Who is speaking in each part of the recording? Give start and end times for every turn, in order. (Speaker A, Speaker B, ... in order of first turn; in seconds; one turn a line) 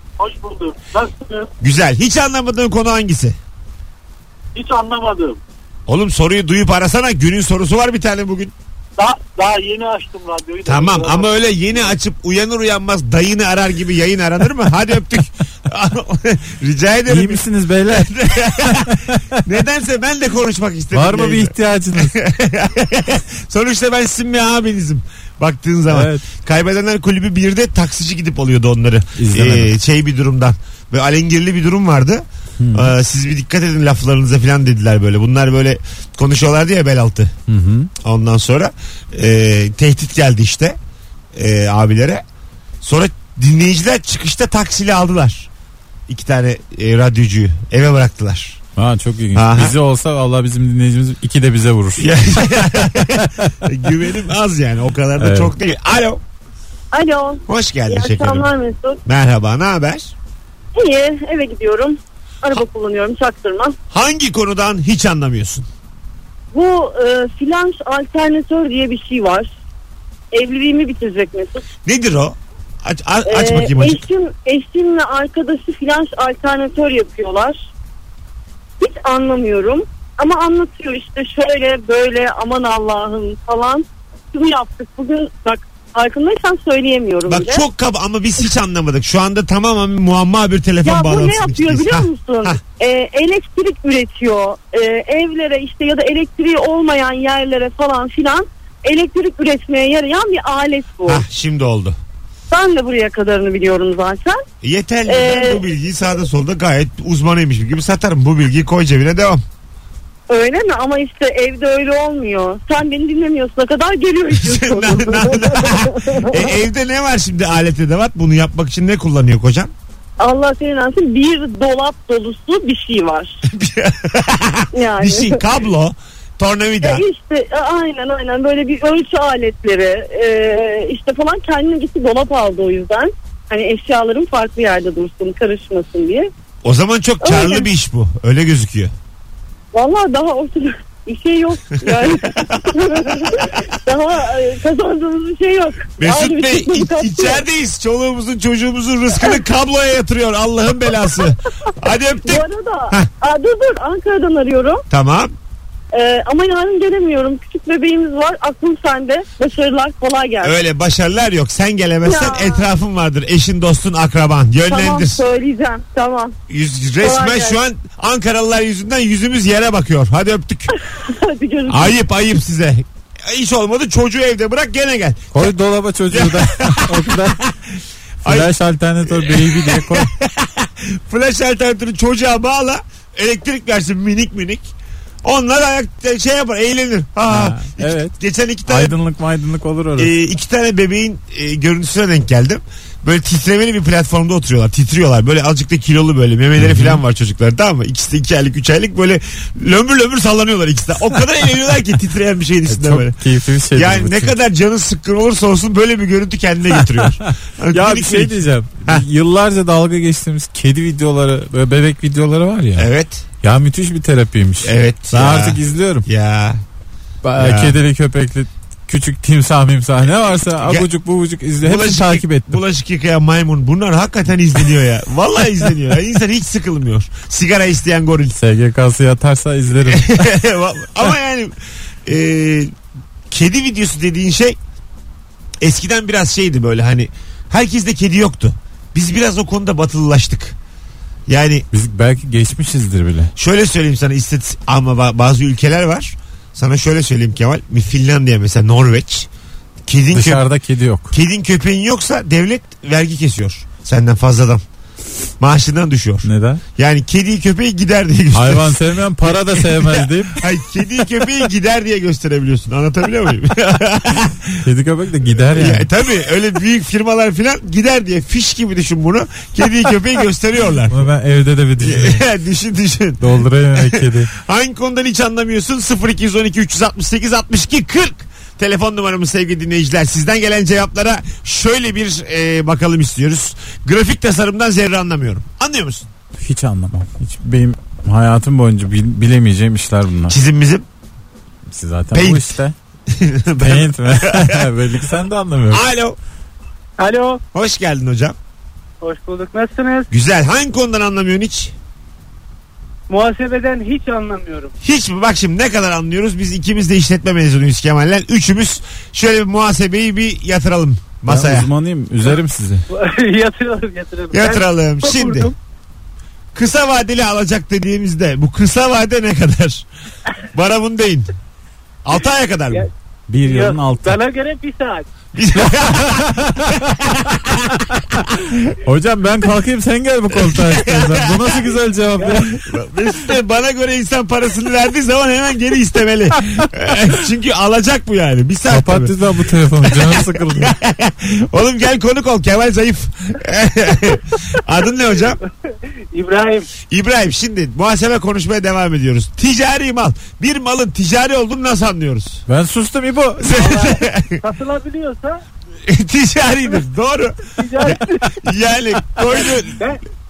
Speaker A: 0.2-1.5
Speaker B: 1.6-3.4
Speaker A: 4.5-5.4
Speaker B: 5.9-8.6
Speaker A: 9.0-11.3
Speaker B: 10.6-37.3
Speaker C: 17.1-19.4
Speaker C: 20.9-22.2
Speaker C: 25.9-26.2
Speaker C: 29.2-29.7
Speaker C: 32.6-32.9
Speaker C: 37.5-37.9
Speaker B: 38.0-40.8
Speaker B: 41.4-42.2
Speaker B: 42.8-45.5
Speaker B: 46.1-48.6
Speaker C: 48.8-53.5
Speaker B: 49.4-49.7
Speaker B: 52.0-56.2
Speaker C: 55.2-55.5
Speaker D: 56.9-59.0
Speaker B: 57.5-58.5
Speaker B: 59.0-60.1
Speaker D: 60.8-63.8
Speaker B: 63.9-65.7
Speaker D: 66.5-69.5
Speaker D: 70.3-71.7
Speaker B: 71.9-74.0
Speaker D: 73.3-77.6
Speaker D: 78.8-87.6
Speaker B: 87.3-92.6
Speaker D: 90.8-101.2
Speaker B: 101.1-102.0
Speaker D: 102.5-104.4
Speaker B: 104.6-109.4
Speaker D: 105.1-105.6
Speaker D: 110.3-116.5
Speaker B: 114.3-119.7
Speaker D: 120.2-123.4
Speaker B: 123.5-127.0
Speaker D: 124.7-125.4
Speaker D: 126.8-136.3
Speaker B: 136.6-138.9
Speaker D: 137.2-137.7
Speaker D: 139.7-147.4
Speaker B: 141.9-143.7
Speaker B: 146.0-153.1
Speaker D: 152.2-154.8
Speaker B: 154.9-155.3
Speaker D: 155.9-160.6
Speaker B: 160.4-165.2
Speaker D: 162.1-162.7
Speaker D: 164.7-166.3
Speaker B: 166.5-170.7
Speaker D: 167.0-167.6
Speaker D: 170.9-171.9
Speaker B: 171.7-175.4
Speaker C: 175.3-177.4
Speaker B: 176.1-177.7
Speaker B: 178.2-178.5
Speaker C: 178.2-180.1
Speaker B: 179.1-184.7
Speaker B: 185.2-188.9
Speaker C: 187.3-188.2
Speaker C: 188.7-190.1
Speaker B: 190.0-203.2
Speaker C: 196.6-197.0
Speaker C: 202.7-204.3
Speaker B: 203.7-209.1
Speaker C: 206.7-212.9
Speaker B: 212.8-213.2
Speaker C: 213.4-216.1
Speaker B: 214.6-216.6
Speaker C: 217.2-222.6
Speaker B: 217.4-217.8
Speaker B: 220.6-220.9
Speaker B: 221.6-228.4
Speaker C: 228.3-230.3
Speaker B: 229.8-232.7
Speaker B: 233.3-234.6
Speaker B: 235.6-240.6
Speaker B: 241.3-241.7
Speaker C: 241.7-243.3
Speaker B: 243.3-249.3
Speaker B: 249.8-250.4
Speaker C: 250.1-251.2
Speaker B: 251.1-254.6
Speaker B: 255.4-264.6
Speaker C: 256.2-256.6
Speaker C: 258.3-260.4
Speaker C: 264.6-265.9
Speaker B: 265.6-271.0
Speaker C: 270.9-272.2
Speaker B: 271.8-286.1
Speaker C: 273.2-274.3
Speaker C: 286.3-290.4
Speaker B: 290.3-290.8
Speaker C: 291.7-292.8
Speaker B: 292.1-292.5
Speaker B: 293.1-294.6
Speaker C: 293.6-295.8
Speaker B: 295.7-296.2
Speaker E: 297.0-297.4
Speaker B: 297.5-298.4
Speaker E: 299.0-300.1
Speaker B: 300.1-301.7
Speaker E: 303.1-304.7
Speaker B: 304.8-311.7
Speaker C: 311.3-312.8
Speaker E: 312.9-315.5
Speaker B: 314.3-315.5
Speaker B: 316.5-319.9
Speaker B: 320.5-321.3
Speaker B: 322.1-322.9
Speaker C: 323.3-324.2
Speaker E: 323.4-325.1
Speaker B: 325.3-327.8
Speaker C: 325.7-327.0
Speaker C: 327.7-328.1
Speaker B: 328.3-328.6
Speaker C: 328.8-332.5
Speaker B: 330.4-331.5
Speaker B: 332.4-339.1
Speaker C: 338.7-340.7
Speaker B: 339.9-345.4
Speaker E: 346.1-346.7
Speaker B: 346.9-352.4
Speaker C: 352.5-353.6
Speaker B: 353.4-354.4
Speaker E: 353.5-355.4
Speaker B: 355.9-359.8
Speaker E: 357.6-358.4